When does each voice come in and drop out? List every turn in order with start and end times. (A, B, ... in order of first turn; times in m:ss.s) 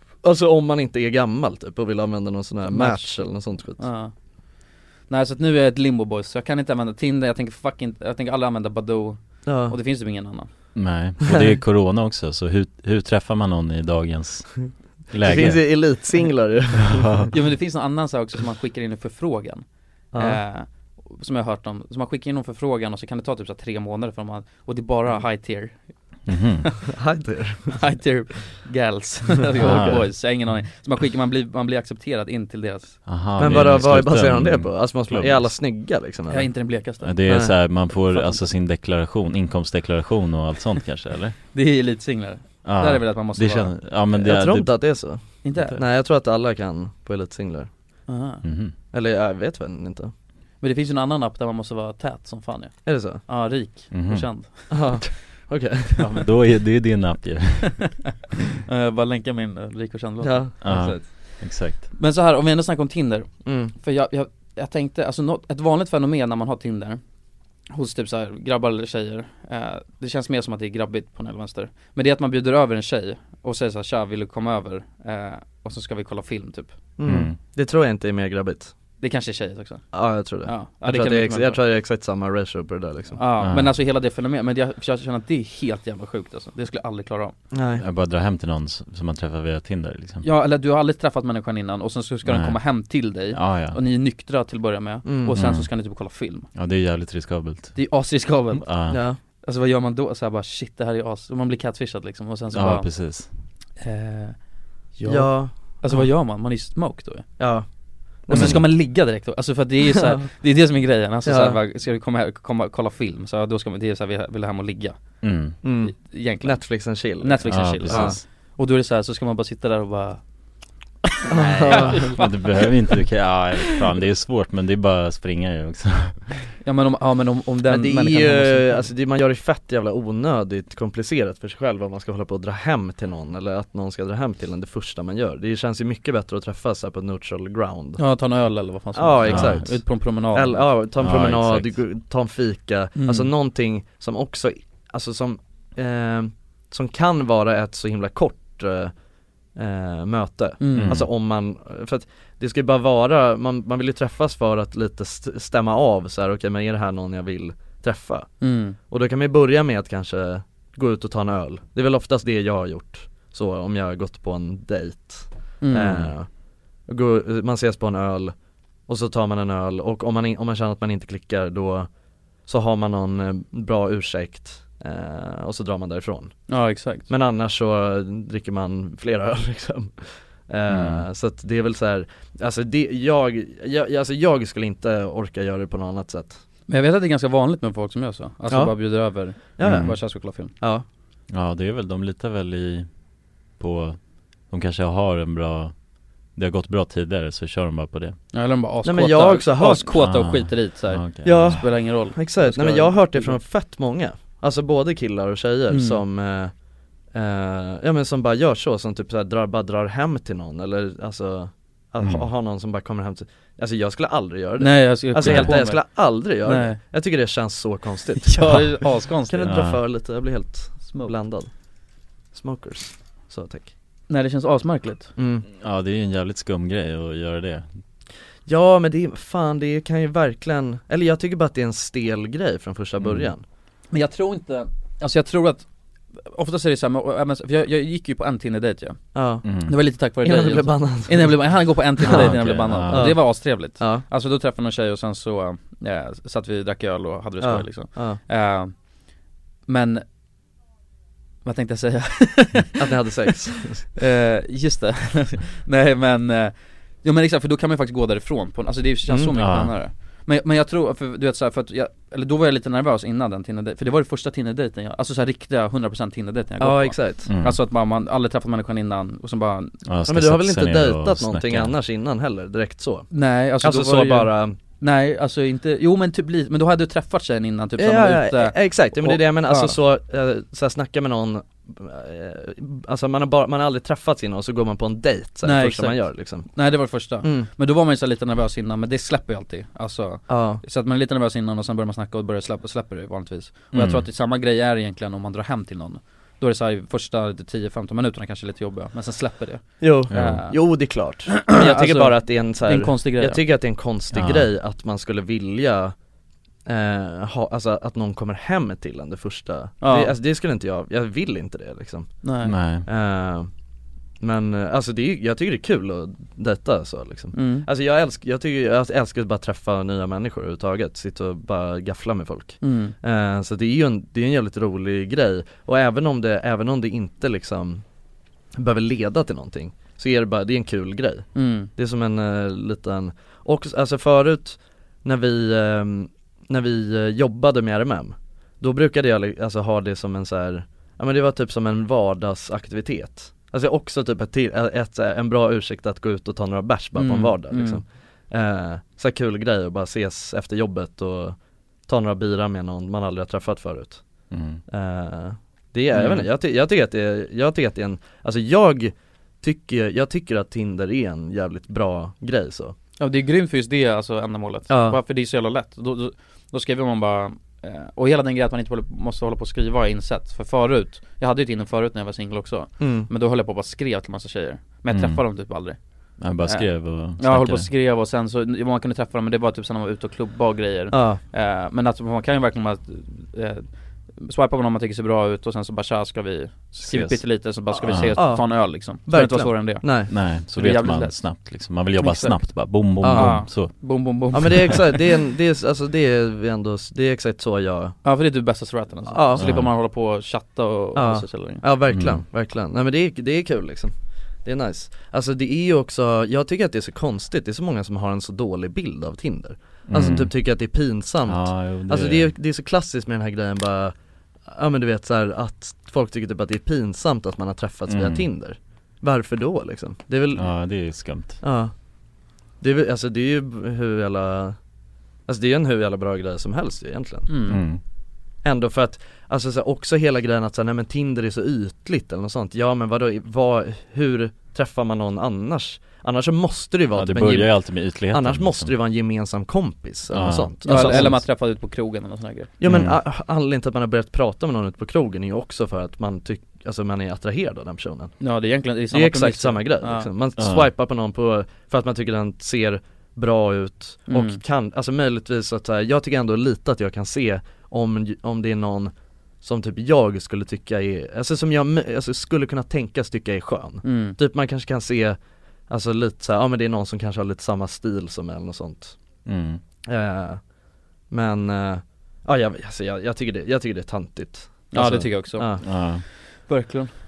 0:00.2-0:03.9 A
0:02.7-0:04.2 B
0:05.1-0:10.5 B
0:09.4-0:09.8 A
0:10.7-0:16.0 C
0:15.2-0:17.3 A
0:16.8-0:17.3 C
0:17.3-0:25.9 B
0:20.1-0:20.4 A
0:26.3-0:26.8 C
0:26.9-0:27.8 A
0:27.7-0:33.0 B
0:29.6-0:30.0 A
0:29.6-0:30.0 C
0:33.1-0:35.6 C
0:33.4-0:36.5 A
0:36.3-0:38.5 B
0:37.0-0:41.4 C
0:37.3-0:37.6 A
0:41.5-0:43.7 B
0:42.6-0:45.1 C
0:44.1-0:47.7 A
0:45.4-0:45.8 B
0:48.1-0:48.4 B
0:48.4-0:48.7 C
0:48.9-0:50.1 A
0:50.6-0:55.0 B
0:52.9-0:53.2 A
0:53.9-0:54.5 C
0:54.7-0:56.2 A
0:56.0-0:57.9 C
0:58.7-1:07.0 B
1:00.2-1:01.0 A
1:00.6-1:01.9 C
1:03.4-1:03.7 A
1:07.7-1:16.7 B
1:17.0-1:18.7 A
1:17.0-1:17.4 C
1:19.0-1:21.6 B
1:19.9-1:23.2 A
1:23.2-1:27.3 B
1:23.4-1:23.8 C
1:27.5-1:27.8 A
1:27.8-1:30.2 C
1:30.2-1:36.5 B
1:32.2-1:33.8 C
1:35.0-1:35.3 A
1:35.3-1:35.7 C
1:36.5-1:38.0 C
1:37.8-1:43.2 B
1:38.6-1:39.0 C
1:38.9-1:39.2 A
1:42.5-1:43.3 C
1:43.8-1:44.4 B
1:44.9-1:47.4 B
1:45.0-1:46.1 A
1:47.4-1:48.7 A
1:48.3-2:00.2 B
1:48.3-1:48.7 C
1:51.3-1:51.6 A
1:55.2-1:55.6 C
1:55.6-1:58.2 A
1:57.5-1:58.2 C
2:01.2-2:02.5 B
2:01.3-2:02.2 A
2:01.3-2:06.3 C
2:06.6-2:08.9 B
2:07.7-2:18.0 A
2:18.0-2:20.7 B
2:19.0-2:28.9 A
2:19.3-2:19.8 C
2:21.0-2:21.8 C
2:23.0-2:23.3 B
2:29.6-2:46.3 A
2:30.6-2:31.0 B
2:30.7-2:31.1 C
2:38.4-2:38.8 B
2:45.6-2:46.1 B
2:46.9-2:48.4 A
2:48.9-2:51.9 A
2:52.4-3:06.4 A
2:56.5-2:57.1 B
3:00.7-3:01.1 C
3:06.7-3:10.5 B
3:08.5-3:10.8 A
3:09.6-3:10.0 C
3:11.3-3:12.9 C
3:13.6-3:15.7 C
3:16.3-3:18.2 C
3:18.3-3:23.4 B
3:18.8-3:19.9 A
3:19.9-3:21.6 C
3:21.2-3:26.5 A
3:25.7-3:26.0 B
3:27.1-3:41.5 A
3:32.0-3:32.3 C
3:34.6-3:36.8 B
3:35.2-3:35.6 C
3:38.2-3:39.6 B
3:39.4-3:39.8 C
3:40.8-3:41.1 B
3:42.3-3:43.7 A
3:44.1-3:45.1 B
3:45.2-3:45.5 A
3:45.5-3:47.7 C
3:48.5-3:53.4 A
3:53.0-3:53.3 C
3:53.9-4:08.8 B
3:59.1-3:59.4 A
3:59.4-3:59.8 C
4:00.2-4:02.3 A
4:02.0-4:03.3 C
4:02.9-4:04.0 A
4:07.4-4:08.2 A
4:09.7-4:10.0 B
4:11.4-4:12.8 B
4:12.8-4:13.9 A
4:14.0-4:29.8 B
4:19.4-4:19.8 C
4:26.6-4:27.3 A
4:27.3-4:27.6 C
4:29.9-4:31.8 C
4:30.1-4:34.6 A
4:33.1-4:39.8 B
4:37.8-4:47.5 A
4:45.4-5:03.4 B
4:50.3-4:50.6 A
4:53.7-4:54.1 C
4:59.8-5:06.0 A
5:00.1-5:00.5 C
5:04.1-5:04.5 C
5:06.7-5:12.3 A
5:09.8-5:10.1 B
5:12.2-5:12.5 B
5:12.4-5:12.9 C
5:12.9-5:13.5 A
5:14.2-5:27.8 A
5:17.3-5:17.7 B
5:22.6-5:23.0 B
5:28.6-6:02.8 A
5:31.4-5:31.7 B
5:47.0-5:47.8 B
5:54.3-5:54.6 C
5:56.0-5:56.3 B
6:03.0-6:35.0 B
6:04.7-6:05.0 A
6:12.8-6:13.1 A
6:14.9-6:15.4 C
6:16.2-6:17.7 C
6:20.9-6:21.2 A
6:26.8-6:28.4 C
6:27.7-6:30.1 A
6:30.1-6:34.6 C
6:33.0-6:33.5 A
6:34.3-6:38.0 A
6:38.0-6:41.6 B
6:39.1-6:39.4 A
6:39.4-6:39.7 C
6:41.0-6:43.9 A
6:41.9-6:42.2 C
6:44.4-6:53.9 A
6:49.9-6:50.4 C
6:51.3-6:52.3 C
6:54.5-7:01.7 A
6:57.9-6:58.3 C
7:00.4-7:01.4 C
7:02.6-7:04.6 A
7:05.3-7:07.4 A
7:07.3-7:07.6 B
7:07.5-7:07.8 C
7:08.4-7:21.2 A
7:16.9-7:18.8 C
7:20.1-7:21.2 C
7:20.6-7:22.5 B
7:22.6-7:28.2 A
7:22.6-7:23.0 C
7:28.2-7:30.1 B
7:28.9-7:49.0 A
7:30.4-7:30.7 C
7:34.1-7:34.4 B
7:43.8-7:44.2 B
7:49.2-7:49.6 C
7:49.9-7:50.4 A
7:51.1-7:55.6 A
7:54.7-7:56.9 B
7:55.6-7:56.0 C